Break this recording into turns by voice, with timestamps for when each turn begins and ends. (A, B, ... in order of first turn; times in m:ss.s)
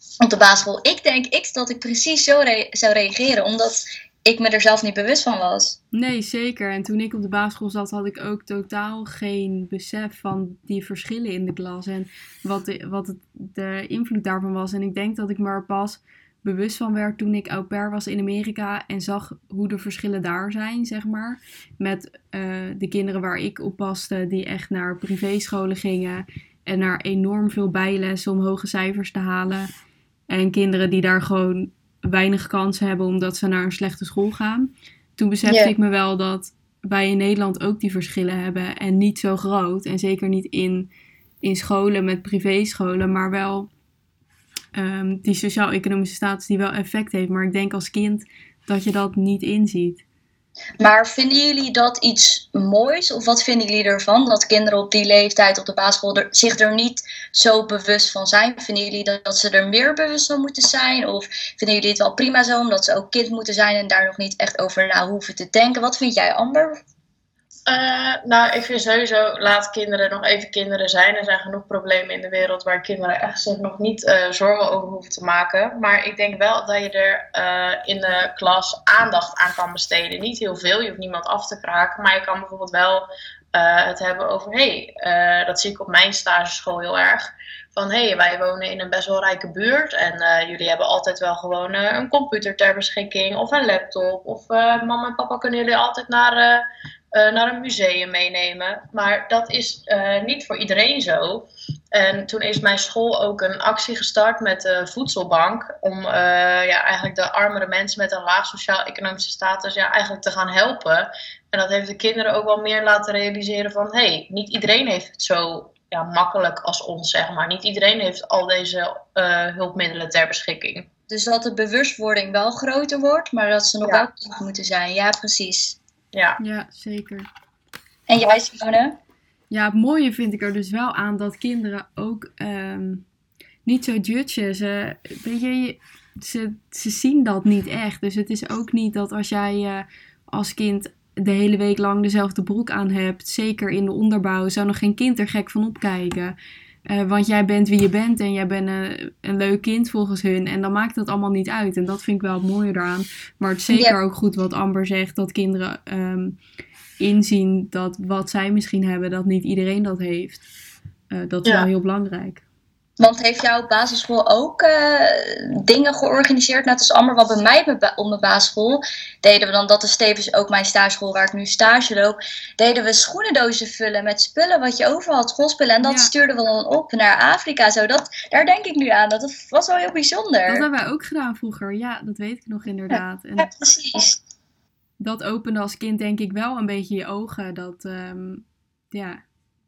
0:00.2-0:05.8 A
0:05.9-0:29.7 B
0:30.3-0:40.9 B
0:35.4-0:35.7 A
0:41.4-0:43.7 B
0:44.7-0:50.0 B
0:50.8-1:06.8 A
1:07.7-2:00.9 C
2:01.1-2:05.8 A
2:03.8-2:04.1 C
2:06.1-2:06.4 C
2:06.4-2:07.3 B
2:08.1-2:09.0 A
2:09.5-2:13.0 B
2:13.6-2:26.4 B
2:26.9-2:36.4 B
2:33.7-2:34.0 A
2:37.0-2:40.4 B
2:41.1-2:42.4 B
2:43.0-3:00.7 A
2:55.8-2:56.1 B
3:00.5-3:03.5 B
3:02.9-3:04.2 A
3:05.0-3:09.2 B